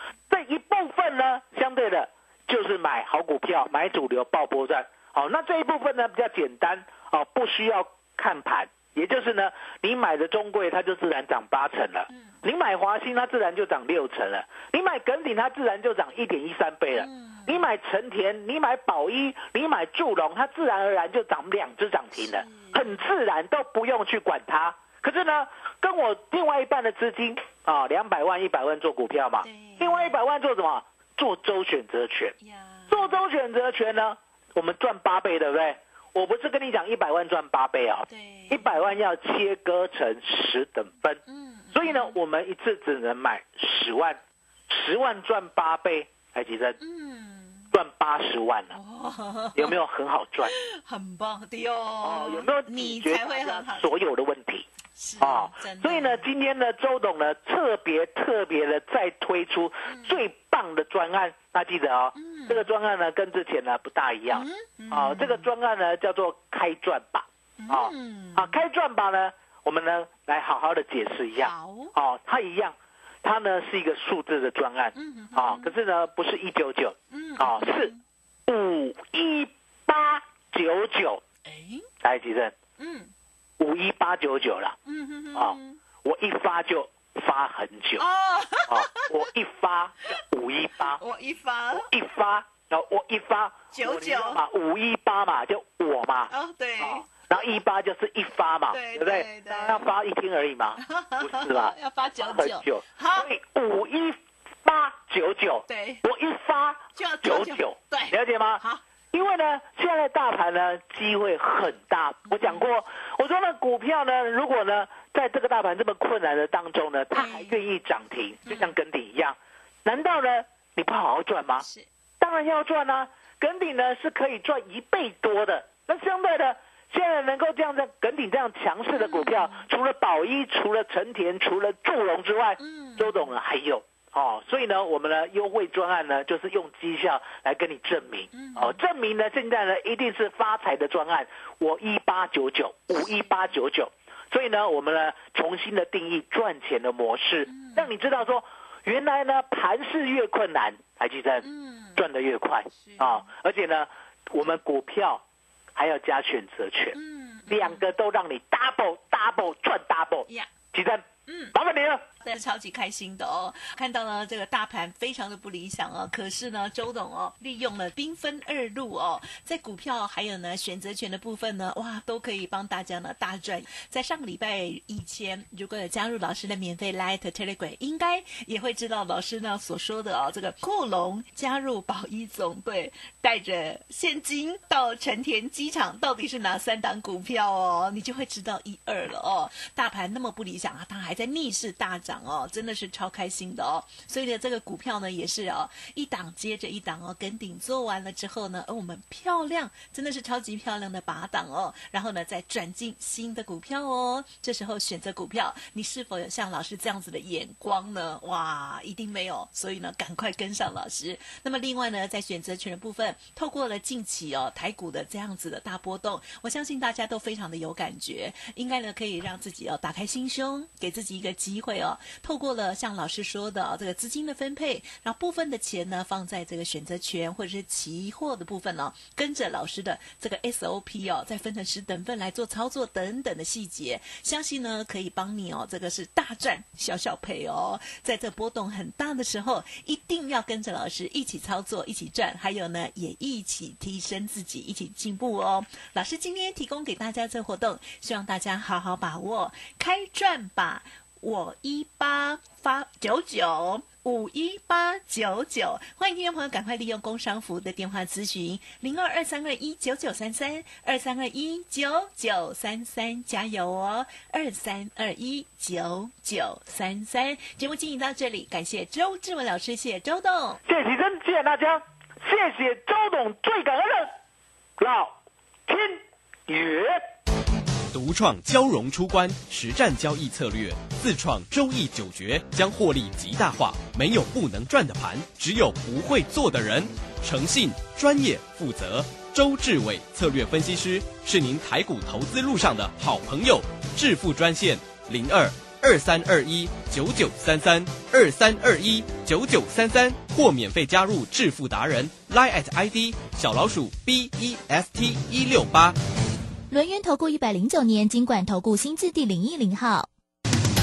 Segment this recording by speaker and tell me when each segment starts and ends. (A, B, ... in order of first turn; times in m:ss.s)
0:00.3-0:32.3 A
0:12.1-0:12.4 B
0:16.9-0:17.6 B
0:22.1-0:23.0 B
0:29.4-0:30.2 B
0:32.4-0:33.2 B
0:32.9-0:41.2 A
0:38.1-0:39.0 B
0:41.2-0:42.2 B
0:41.7-0:46.8 A
0:46.8-0:47.7 B
0:47.7-0:48.7 A
0:48.7-0:49.8 B
0:49.5-0:50.5 A
0:50.4-0:53.9 B
0:52.0-0:54.6 A
0:55.0-0:56.3 B
0:55.2-1:17.9 A
0:59.9-1:00.2 B
1:02.1-1:02.7 B
1:04.3-1:05.5 B
1:07.6-1:08.6 B
1:11.4-1:11.9 B
1:14.9-1:15.8 B
1:17.1-1:18.0 B
1:18.5-1:21.2 A
1:21.4-1:21.9 B
1:22.0-1:22.5 A
1:22.8-1:23.1 B
1:23.6-1:24.8 A
1:24.8-1:25.8 B
1:25.3-1:28.0 A
1:28.0-1:29.2 B
1:28.7-1:31.0 A
1:30.8-1:31.9 B
1:31.7-2:01.6 A
1:33.7-1:34.4 B
1:36.3-1:37.0 B
1:38.7-1:39.9 B
1:40.8-1:43.3 B
1:45.7-1:46.0 B
1:46.9-1:48.8 B
1:52.3-1:52.7 B
1:57.1-1:57.6 B
1:58.5-1:58.7 B
2:01.6-2:01.9 B
2:02.2-2:35.2 A
2:08.9-2:09.6 B
2:12.6-2:13.3 B
2:18.3-2:18.8 B
2:27.4-2:28.0 B
2:31.4-2:32.0 B
2:32.7-2:33.3 B
2:35.7-2:42.0 A
2:36.9-2:37.9 B
2:41.3-2:41.5 B
2:42.2-4:30.6 B
4:30.6-4:34.1 A
4:34.8-4:35.2 A
4:35.7-4:37.0 A
4:37.9-5:06.0 C
5:06.7-5:10.1 D